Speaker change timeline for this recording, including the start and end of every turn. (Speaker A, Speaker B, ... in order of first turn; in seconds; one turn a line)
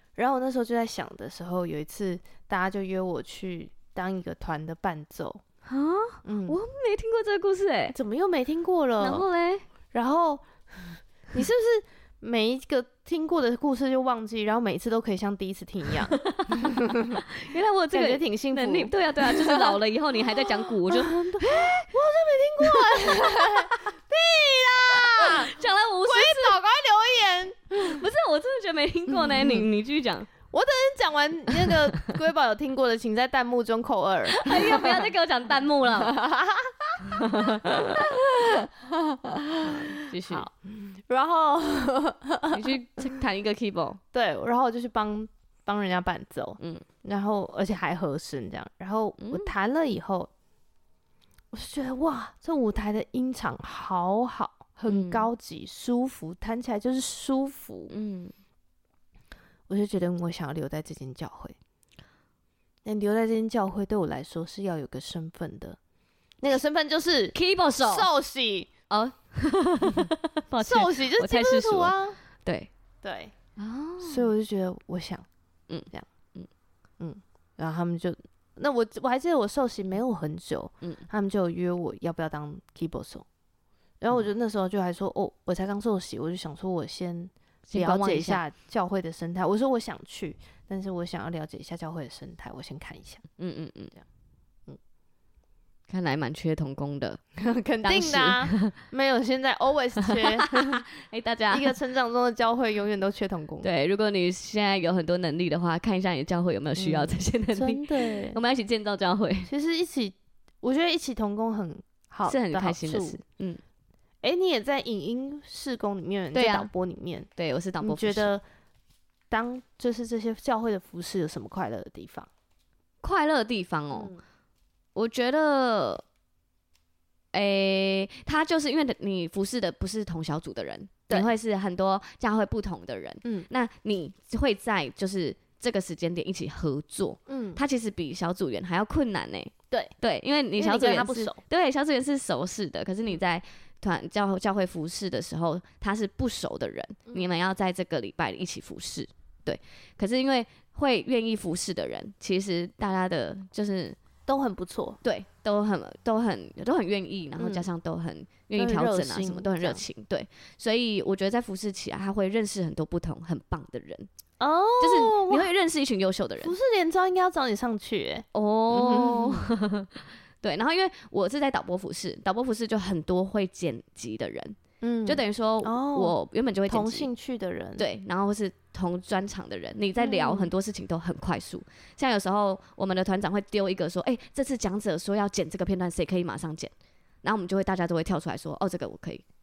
Speaker A: 0.2-5.4
Speaker B: 5.6-8.0
Speaker A: 6.2-6.6
Speaker A: 7.9-9.3
Speaker B: 9.0-9.7
Speaker A: 9.9-17.2
Speaker B: 16.2-21.9
Speaker A: 17.9-19.8
Speaker A: 20.9-28.0
Speaker B: 22.6-23.9
Speaker B: 24.9-26.6
Speaker B: 27.8-30.3
Speaker A: 29.1-29.7
Speaker A: 30.5-35.1
Speaker B: 34.3-36.2
Speaker A: 36.0-42.8
Speaker B: 37.0-38.1
Speaker B: 39.6-40.5
Speaker B: 42.5-44.0
Speaker A: 44.1-50.3
Speaker B: 46.6-46.9
Speaker B: 49.2-49.5
Speaker A: 51.5-57.9
Speaker B: 54.9-55.3
Speaker B: 57.9-58.3
Speaker A: 59.7-61.6
Speaker A: 62.9-65.8
Speaker A: 66.4-68.7
Speaker B: 67.3-68.1
Speaker B: 68.9-72.7
Speaker A: 70.6-72.2
Speaker A: 73.0-73.3
Speaker B: 73.6-74.3
Speaker A: 74.0-75.3
Speaker B: 75.7-76.5
Speaker A: 77.0-83.3
Speaker A: 84.0-93.3
Speaker B: 87.7-88.4
Speaker B: 93.4-93.9
Speaker B: 95.9-97.2
Speaker A: 97.4-100.9
Speaker B: 97.8-98.8
Speaker B: 100.0-101.7
Speaker A: 101.5-103.7
Speaker B: 103.6-109.5
Speaker A: 106.8-108.4
Speaker A: 109.5-113.2
Speaker B: 112.2-113.6
Speaker A: 114.2-117.3
Speaker B: 116.3-116.7
Speaker B: 117.4-118.3
Speaker A: 117.8-118.4
Speaker A: 119.3-122.3
Speaker B: 123.0-124.1
Speaker A: 123.9-124.2
Speaker B: 125.0-126.0
Speaker B: 127.3-154.0
Speaker A: 137.3-137.6
Speaker A: 140.6-141.4
Speaker A: 154.3-155.0
Speaker B: 155.0-164.1
Speaker A: 157.4-157.7
Speaker A: 158.6-159.9
Speaker A: 164.4-165.5
Speaker B: 164.8-166.5
Speaker A: 166.4-169.5
Speaker B: 168.3-177.1
Speaker A: 174.8-176.2
Speaker A: 176.7-177.9
Speaker B: 177.8-189.2
Speaker A: 180.0-180.5